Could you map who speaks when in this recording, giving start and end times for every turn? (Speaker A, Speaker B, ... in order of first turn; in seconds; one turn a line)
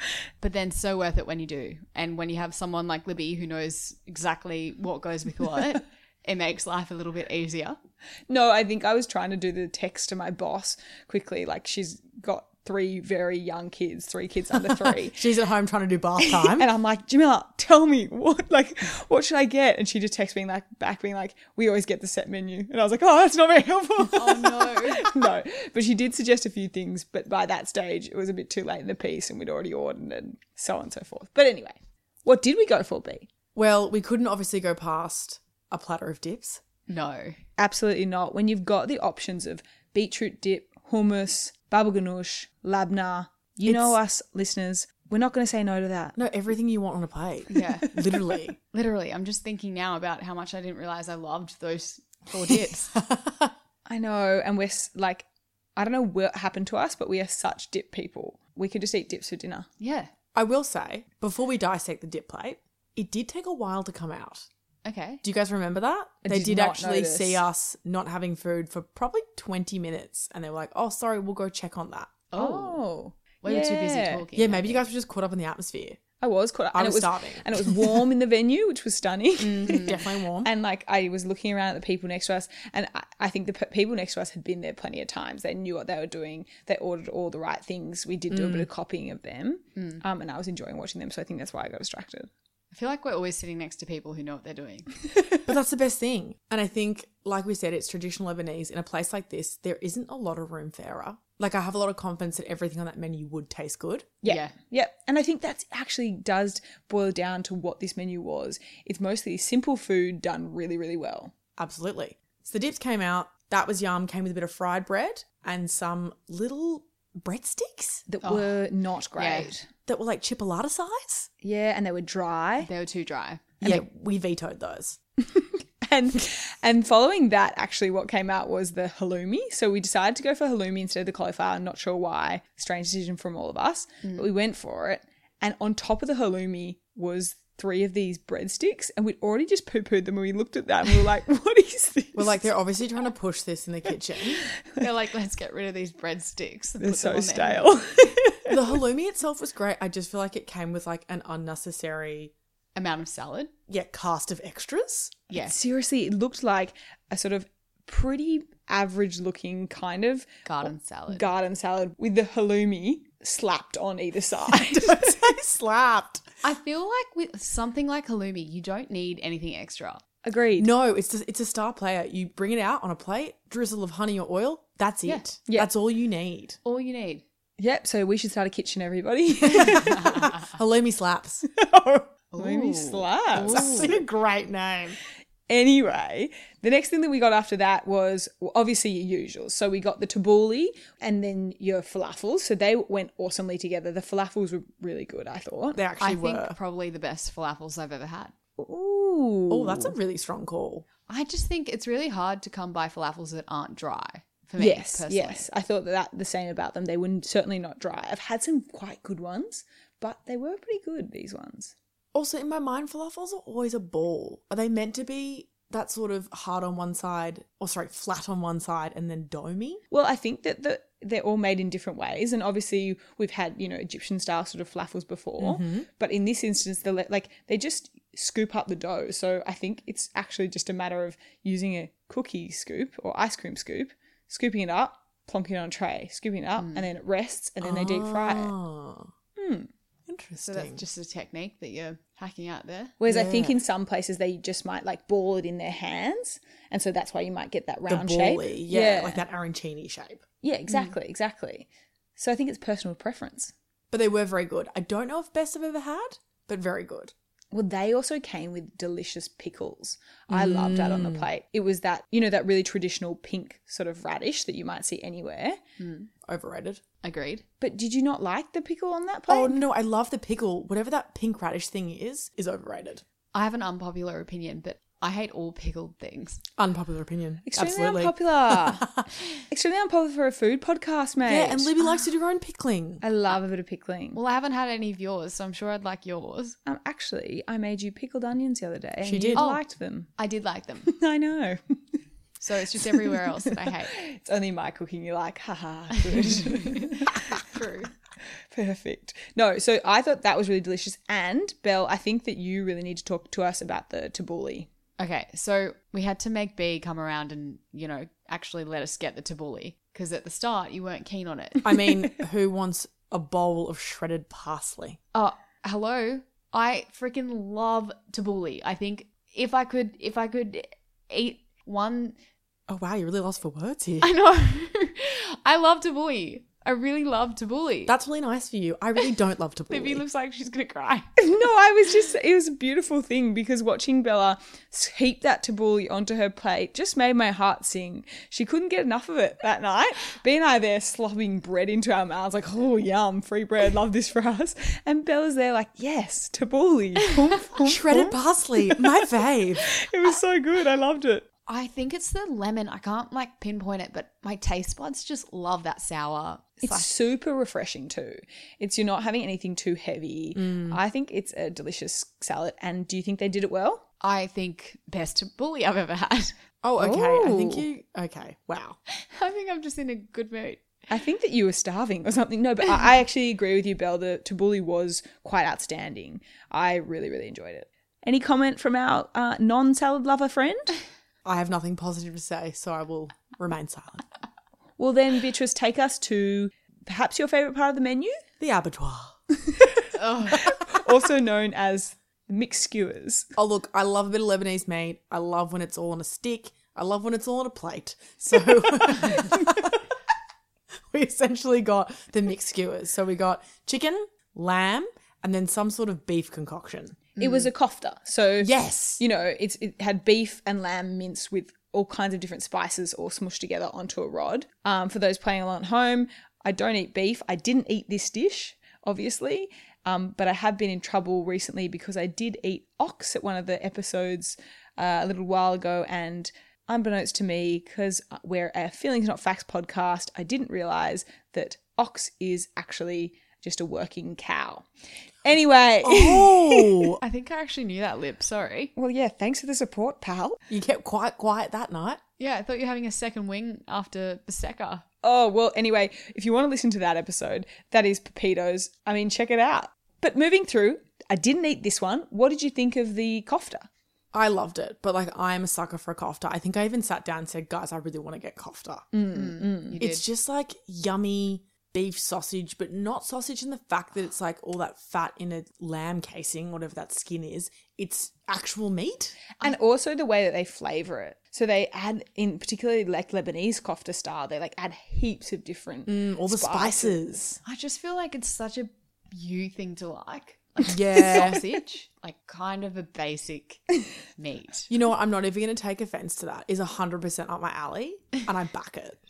Speaker A: 0.4-7.8
Speaker B: 8.3-15.2
Speaker C: 14.8-16.7
Speaker B: 16.2-33.3
Speaker A: 24.1-25.1
Speaker C: 33.5-36.6
Speaker A: 36.9-37.4
Speaker B: 37.6-46.2
Speaker C: 43.6-44.0
Speaker C: 46.2-48.6
Speaker A: 47.5-48.0
Speaker A: 48.7-53.0
Speaker C: 52.5-53.5
Speaker B: 53.9-59.7
Speaker A: 59.8-60.1
Speaker C: 60.4-64.5
Speaker A: 64.8-65.2
Speaker C: 65.2-72.2
Speaker B: 66.2-67.4
Speaker A: 72.3-72.9
Speaker B: 72.3-74.2
Speaker A: 73.4-74.9
Speaker C: 74.3-76.0
Speaker B: 76.2-92.3
Speaker C: 76.7-78.1
Speaker C: 79.4-80.5
Speaker C: 88.3-88.7
Speaker A: 92.7-94.9
Speaker C: 95.5-104.1
Speaker B: 104.2-111.3
Speaker A: 104.2-104.5
Speaker C: 111.6-118.1
Speaker B: 118.1-119.7
Speaker A: 118.2-118.6
Speaker A: 119.2-119.5
Speaker C: 119.9-121.3
Speaker B: 121.4-122.7
Speaker A: 122.6-123.5
Speaker C: 123.6-125.0
Speaker B: 125.3-142.5
Speaker C: 142.2-144.5
Speaker A: 144.8-147.7
Speaker B: 146.8-148.6
Speaker C: 148.5-152.3
Speaker A: 152.8-153.5
Speaker C: 153.7-155.2
Speaker A: 155.3-155.6
Speaker B: 155.4-165.3
Speaker A: 160.4-161.3
Speaker C: 164.5-166.2
Speaker A: 166.4-170.0
Speaker B: 170.2-170.7
Speaker C: 170.6-176.6
Speaker A: 176.7-177.2
Speaker B: 177.6-180.4
Speaker C: 179.6-181.4
Speaker B: 181.5-184.0
Speaker A: 182.3-184.0
Speaker C: 183.4-185.0
Speaker B: 185.5-195.8
Speaker C: 195.8-196.6
Speaker A: 196.0-198.3
Speaker B: 198.6-199.9
Speaker C: 199.5-200.9
Speaker A: 201.1-205.5
Speaker B: 204.6-211.7
Speaker C: 212.1-219.8
Speaker B: 219.9-238.6
Speaker C: 225.4-225.9
Speaker A: 236.6-236.9
Speaker C: 237.6-239.1
Speaker B: 239.4-239.7
Speaker C: 240.1-240.8
Speaker A: 240.4-243.0
Speaker B: 243.0-249.2
Speaker C: 243.1-243.6
Speaker C: 247.9-250.2
Speaker B: 250.4-253.5
Speaker C: 253.9-257.1
Speaker B: 257.5-265.6
Speaker C: 260.3-261.3
Speaker A: 265.8-266.1
Speaker C: 266.2-266.8
Speaker A: 267.0-267.4
Speaker B: 267.6-269.6
Speaker C: 269.3-273.0
Speaker A: 273.3-276.4
Speaker C: 276.6-279.0
Speaker B: 277.5-278.9
Speaker B: 279.5-281.7
Speaker C: 281.2-283.0
Speaker B: 283.0-284.2
Speaker A: 284.1-286.6
Speaker B: 286.6-290.1
Speaker C: 289.0-289.4
Speaker A: 289.4-289.6
Speaker A: 290.2-290.9
Speaker B: 290.9-291.8
Speaker A: 292.4-294.0
Speaker B: 292.8-297.5
Speaker A: 296.2-297.9
Speaker B: 298.5-304.7
Speaker A: 305.0-311.7
Speaker C: 311.6-315.0
Speaker A: 315.1-322.2
Speaker C: 322.7-324.1
Speaker A: 324.0-327.9
Speaker C: 327.9-330.0
Speaker A: 329.7-331.1
Speaker B: 331.2-349.0
Speaker C: 347.6-349.7
Speaker B: 349.6-351.3
Speaker A: 351.5-356.9
Speaker B: 356.6-363.8
Speaker C: 360.4-360.8
Speaker A: 364.0-366.4
Speaker C: 366.6-368.8
Speaker B: 366.8-367.7
Speaker A: 368.9-370.6
Speaker B: 370.9-380.8
Speaker C: 381.2-384.0
Speaker B: 384.8-388.2
Speaker C: 388.4-389.2
Speaker B: 389.4-393.3
Speaker A: 390.0-390.5
Speaker C: 393.4-399.9
Speaker C: 400.9-407.1
Speaker A: 407.2-407.5
Speaker B: 407.2-434.7
Speaker C: 408.4-409.0
Speaker B: 435.2-436.9
Speaker C: 435.8-437.0
Speaker A: 437.0-438.7
Speaker B: 438.8-440.4
Speaker C: 440.5-442.0
Speaker A: 442.2-444.9
Speaker B: 445.0-453.7
Speaker C: 454.1-458.9
Speaker B: 458.9-459.8
Speaker A: 459.1-460.0
Speaker C: 459.8-469.2
Speaker B: 469.4-477.2
Speaker C: 475.9-477.4
Speaker A: 477.4-484.7
Speaker C: 480.7-481.4
Speaker B: 480.9-481.4
Speaker C: 484.7-489.0